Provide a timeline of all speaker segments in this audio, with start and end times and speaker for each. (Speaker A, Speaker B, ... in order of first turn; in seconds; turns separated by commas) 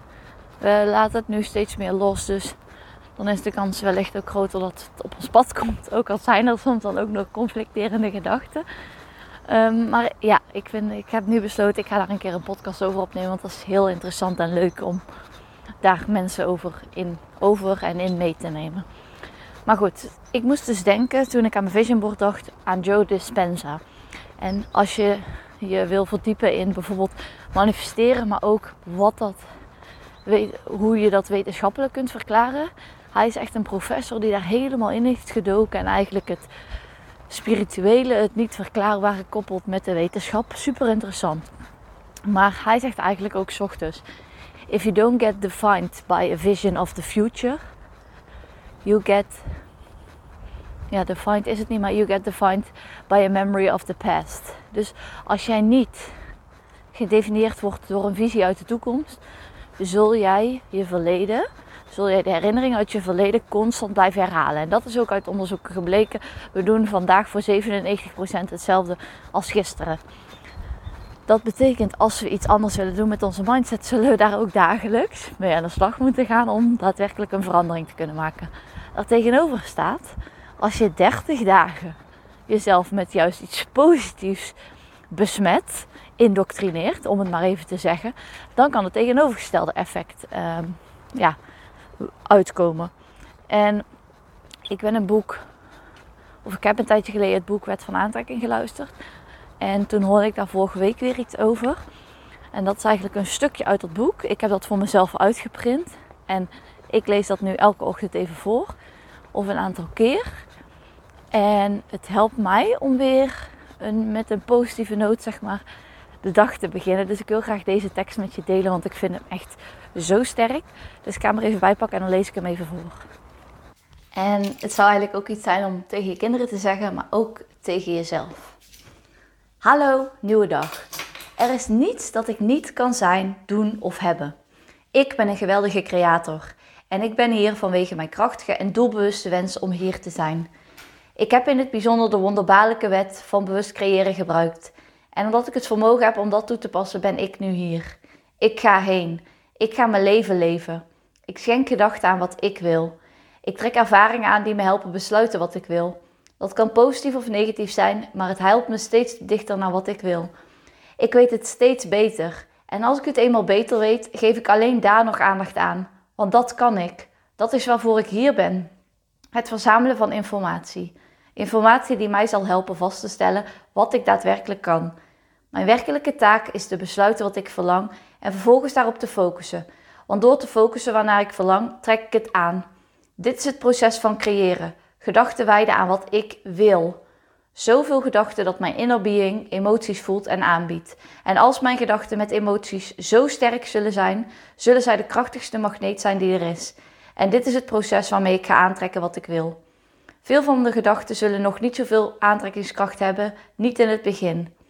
Speaker A: 0.6-2.6, Speaker A: 3.2-8.7, Speaker A: 9.5-15.0, Speaker A: 15.8-18.8, Speaker A: 19.6-23.8, Speaker A: 24.4-29.4, Speaker A: 30.2-36.5, Speaker A: 37.3-41.5, Speaker A: 42.3-44.0, Speaker A: 44.7-47.6, Speaker A: 48.8-49.5, Speaker A: 50.9-56.1, Speaker A: 56.9-59.2, Speaker A: 59.8-70.0, Speaker A: 71.3-84.6, Speaker A: 85.1-91.4, Speaker A: 92.0-92.9, Speaker A: 93.5-93.8, Speaker A: 94.7-95.4, Speaker A: 96.4-98.9, Speaker A: 99.6-101.8, Speaker A: 102.5-108.7, Speaker A: 109.3-110.4, Speaker A: 111.3-115.6, Speaker A: 116.2-123.0, Speaker A: 124.1-128.6, Speaker A: 129.6-130.8, Speaker A: 131.4-134.3, Speaker A: 134.9-140.5, Speaker A: 141.2-160.3, Speaker A: 161.0-168.7, Speaker A: 169.3-174.9, Speaker A: 175.5-182.7, Speaker A: 183.2-187.0, Speaker A: 187.5-199.6, Speaker A: 200.2-204.5